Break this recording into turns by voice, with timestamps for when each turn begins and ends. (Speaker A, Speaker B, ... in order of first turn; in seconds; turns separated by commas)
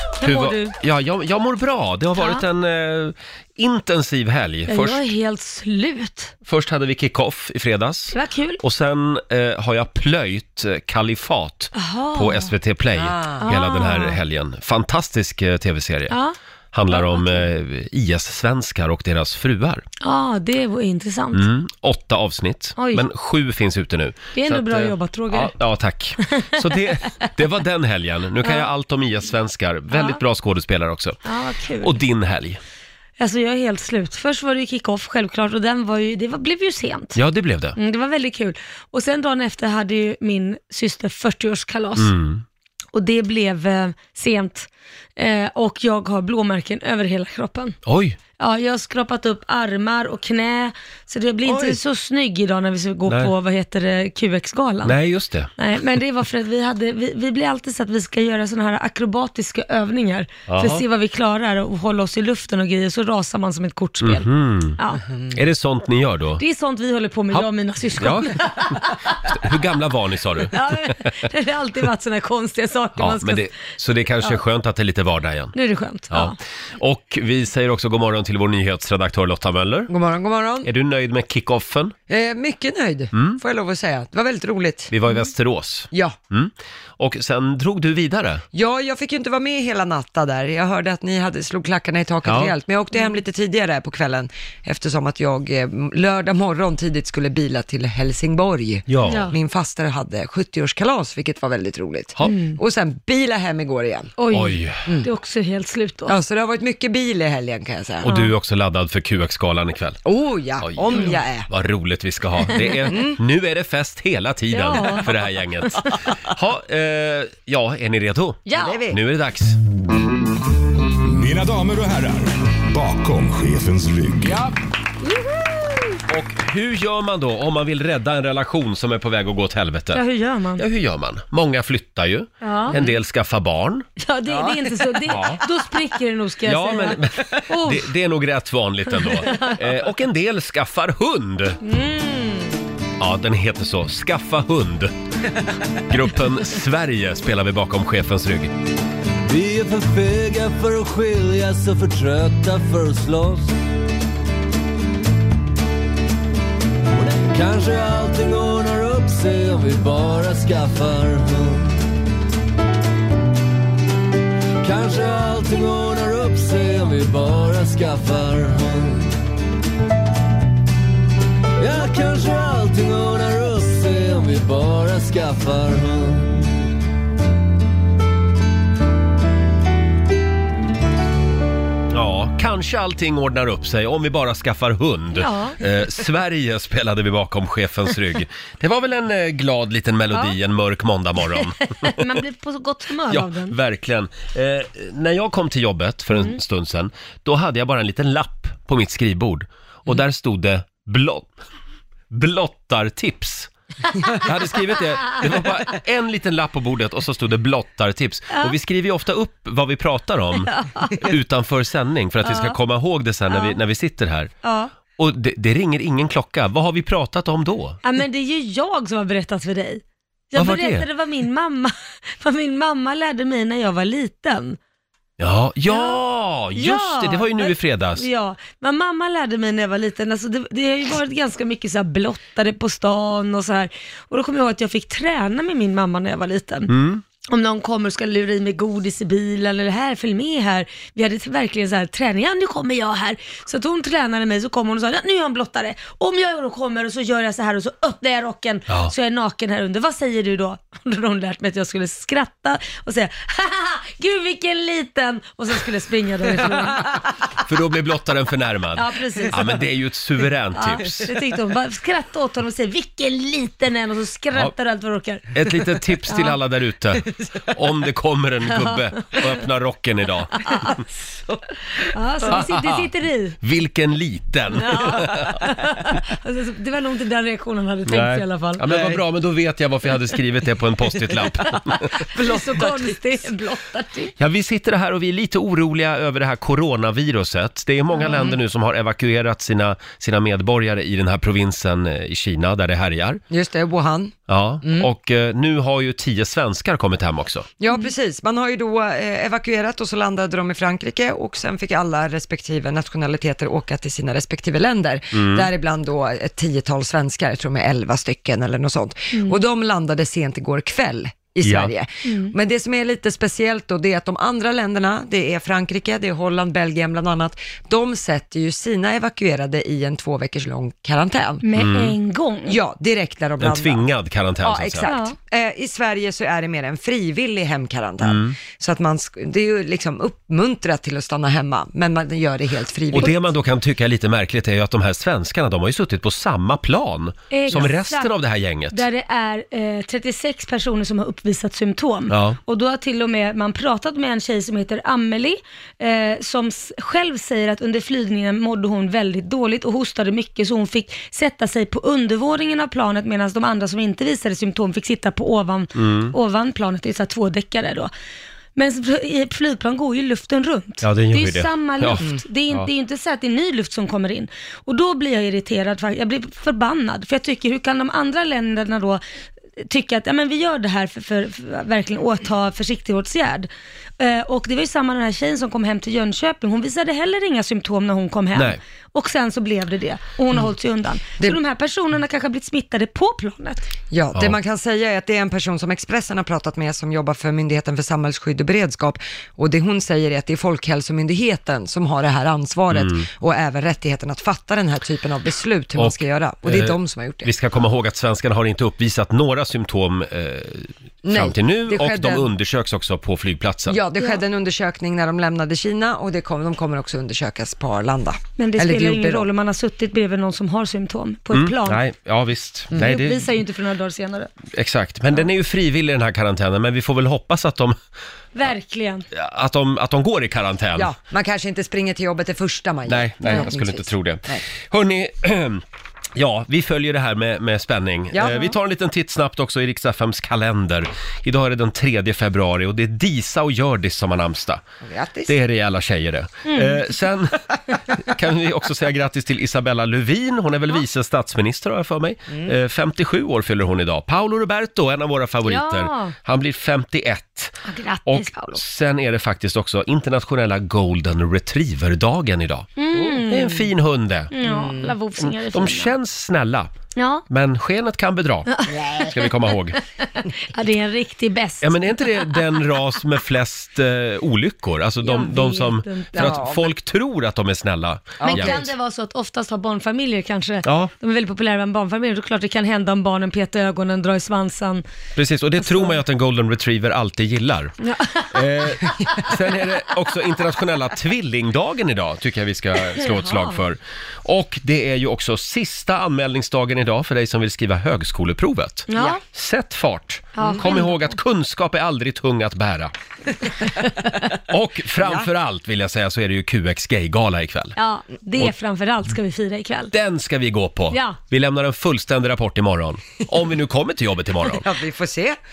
Speaker A: 0.2-0.8, Speaker B: 0.2-5.0, Speaker A: 2.2-2.4, Speaker A: 4.7-6.3, Speaker B: 6.5-16.2, Speaker A: 8.1-8.6, Speaker A: 11.8-12.5, Speaker C: 13.0-13.5, Speaker A: 13.4-14.2, Speaker A: 16.1-16.4, Speaker B: 16.7-19.8, Speaker A: 16.9-17.5, Speaker A: 20.0-21.5, Speaker B: 21.3-31.2, Speaker A: 22.8-23.0, Speaker A: 24.4-25.5, Speaker A: 28.4-28.7, Speaker A: 29.9-30.2, Speaker A: 31.2-32.0, Speaker B: 31.8-32.6, Speaker A: 33.2-37.2, Speaker B: 37.1-37.8, Speaker A: 37.8-42.1, Speaker B: 42.0-42.4, Speaker A: 42.9-47.8, Speaker B: 47.9-48.2, Speaker A: 48.4-55.0, Speaker B: 51.5-51.8, Speaker B: 53.1-53.3, Speaker B: 54.9-55.5, Speaker A: 55.6-65.0, Speaker B: 60.5-60.8, Speaker B: 64.0-64.8, Speaker B: 65.3-66.4, Speaker A: 66.4-69.0, Speaker B: 68.0-68.4, Speaker B: 69.3-70.6, Speaker A: 70.5-73.5, Speaker B: 73.0-75.5, Speaker A: 75.5-76.4, Speaker B: 76.1-79.9, Speaker C: 79.9-80.7, Speaker B: 80.6-82.0, Speaker C: 82.1-84.9, Speaker B: 83.1-83.4, Speaker B: 84.9-88.4, Speaker C: 85.9-86.2, Speaker C: 88.5-104.1, Speaker B: 92.2-92.5, Speaker B: 98.9-99.3, Speaker A: 99.1-99.3, Speaker A: 102.2-102.6, Speaker A: 104.2-106.2, Speaker B: 104.3-104.8, Speaker C: 106.1-108.1, Speaker B: 108.0-110.0, Speaker A: 108.0-108.3, Speaker C: 110.0-111.5, Speaker B: 110.6-119.6, Speaker C: 112.9-113.2, Speaker A: 114.5-115.1, Speaker A: 118.5-118.8, Speaker C: 118.5-119.0, Speaker D: 121.0-124.5, Speaker B: 126.1-130.0, Speaker A: 129.9-130.6, Speaker B: 130.6-133.9, Speaker A: 132.4-132.8, Speaker A: 134.0-137.9, Speaker C: 134.3-134.8, Speaker B: 135.1-135.4, Speaker B: 136.5-141.6, Speaker A: 139.0-139.6, Speaker A: 141.6-142.6, Speaker B: 143.0-144.9, Speaker B: 145.8-148.5, Speaker E: 149.2-153.6, Speaker E: 157.0-161.7, Speaker E: 164.6-169.1, Speaker E: 171.6-176.5, Speaker B: 181.9-192.1, Speaker A: 185.2-185.6, Speaker A: 191.8-193.6, Speaker B: 193.1-201.3, Speaker B: 202.1-203.5, Speaker B: 204.1-214.3, Speaker A: 210.4-211.1, Speaker A: 212.2-212.6, Speaker A: 213.3-213.6, Speaker A: 214.4-214.7, Speaker B: 215.0-217.8, Speaker A: 217.8-224.6, Speaker B: 220.4-220.9, Speaker B: 225.2-228.1, Speaker A: 225.7-226.0, Speaker A: 226.6-236.7, Speaker B: 236.7-237.0, Speaker A: 237.3-257.0, Speaker B: 257.4-261.1, Speaker A: 258.8-259.6, Speaker A: 260.6-265.3, Speaker B: 265.3-270.5, Speaker A: 266.1-266.4, Speaker A: 268.6-269.2, Speaker A: 270.4-270.8, Speaker A: 271.9-273.4, Speaker B: 272.3-272.8, Speaker B: 273.4-275.3, Speaker A: 274.5-278.6, Speaker B: 277.9-281.9, Speaker C: 278.7-279.0, Speaker C: 282.1-283.0, Speaker A: 282.1-284.1, Speaker B: 284.2-293.2, Speaker C: 293.3-294.9, Speaker B: 294.3-297.5, Speaker C: 297.6-321.4, Speaker B: 305.1-305.5, Speaker A: 309.1-309.4, Speaker B: 311.4-311.7, Speaker A: 312.1-312.3, Speaker A: 321.4-322.6, Speaker B: 321.6-321.9, Speaker C: 322.5-323.9, Speaker B: 323.4-324.9, Speaker C: 324.4-333.2, Speaker A: 324.9-325.1, Speaker B: 328.0-328.4, Speaker B: 332.9-338.8, Speaker A: 337.3-338.1, Speaker A: 338.7-357.9, Speaker B: 342.1-342.4, Speaker B: 355.8-356.1, Speaker A: 358.6-369.0, Speaker B: 360.8-362.7, Speaker A: 369.6-383.6, Speaker C: 383.9-397.3, Speaker B: 392.7-393.1, Speaker B: 395.8-403.8, Speaker C: 401.0-402.3, Speaker C: 403.7-409.3, Speaker A: 408.4-411.8, Speaker B: 411.3-413.3, Speaker A: 412.7-414.3, Speaker B: 414.5-417.8, Speaker A: 418.4-419.1, Speaker B: 419.1-420.9, Speaker C: 420.8-424.4, Speaker B: 422.9-425.6, Speaker B: 426.1-434.6, Speaker C: 428.1-428.5, Speaker C: 434.8-435.4, Speaker B: 435.3-452.7, Speaker A: 436.5-436.8, Speaker A: 445.5-446.1, Speaker A: 447.6-448.6, Speaker A: 452.8-453.7, Speaker B: 453.2-454.3, Speaker A: 454.3-455.9, Speaker C: 454.4-454.9, Speaker B: 455.2-456.7, Speaker A: 457.0-457.2, Speaker B: 457.3-459.8, Speaker A: 458.5-459.4, Speaker A: 460.4-462.5, Speaker B: 461.6-468.7, Speaker A: 465.0-466.4, Speaker C: 466.1-466.7, Speaker C: 468.2-468.6, Speaker A: 468.2-474.9, Speaker B: 470.6-470.9, Speaker B: 475.2-477.8, Speaker A: 475.6-476.0, Speaker A: 477.8-478.5, Speaker B: 478.3-492.9, Speaker A: 483.0-483.6, Speaker A: 488.9-489.2, Speaker A: 490.4-491.2, Speaker B: 494.5-497.8, Speaker C: 495.0-495.3, Speaker A: 497.8-499.9, Speaker B: 499.9-504.6, Speaker C: 504.4-505.4